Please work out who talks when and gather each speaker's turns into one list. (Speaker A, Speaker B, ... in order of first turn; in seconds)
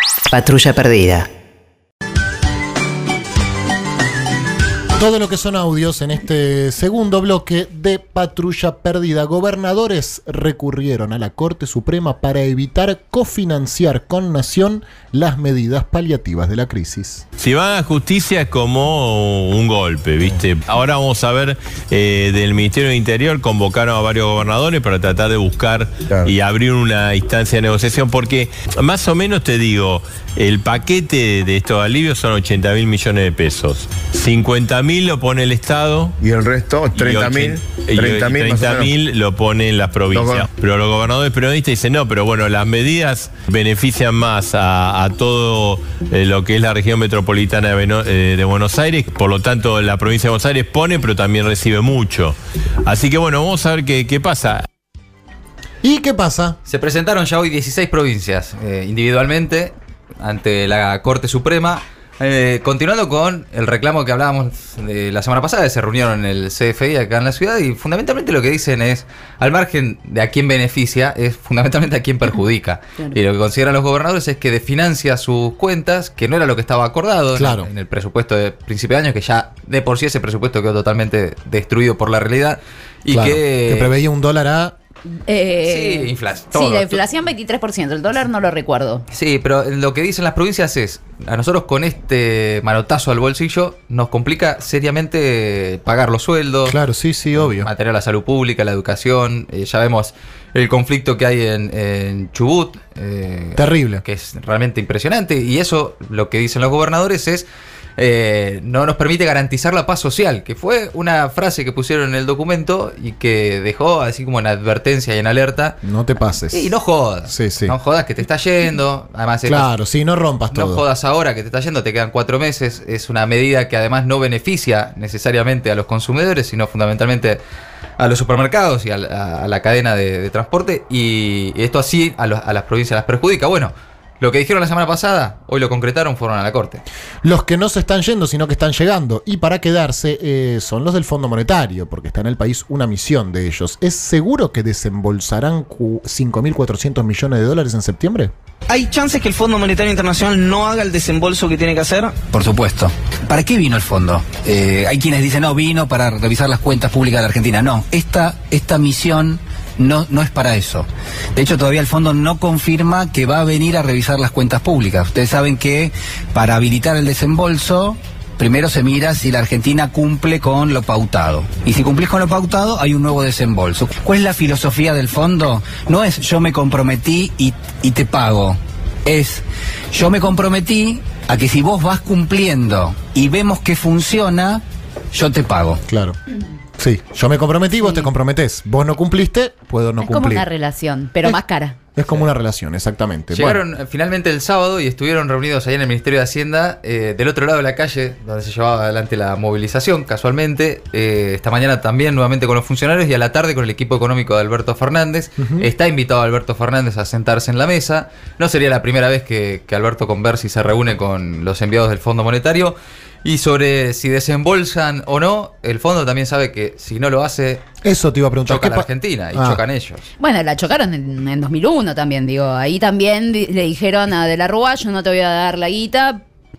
Speaker A: 0.3-1.3, 148.7-150.3, 151.0-152.1
Speaker B: 5.0-17.2, 55.8-56.6, 77.3-77.7, 83.1-84.8, 96.7-97.7, 103.6-104.0, 115.8-117.8, 119.5-120.8, 137.2-148.3, 185.9-186.2, 186.8-190.5, 191.9-193.6, 205.4-205.7, 217.8-219.6
Speaker C: 17.4-36.1, 36.9-52.4, 52.9-54.6
Speaker D: 36.2-38.9, 40.1-40.5
Speaker E: 56.6-83.9, 85.6-87.2, 89.1-96.8, 97.3-115.8, 116.5-119.8, 120.5-127.4, 128.0-136.8, 192.0-192.3, 193.3-217.6, 218.5-220.1
Speaker F: 85.3-89.0, 190.0-191.8, 220.2-226.2
Speaker G: 152.3-184.6, 185.1-185.8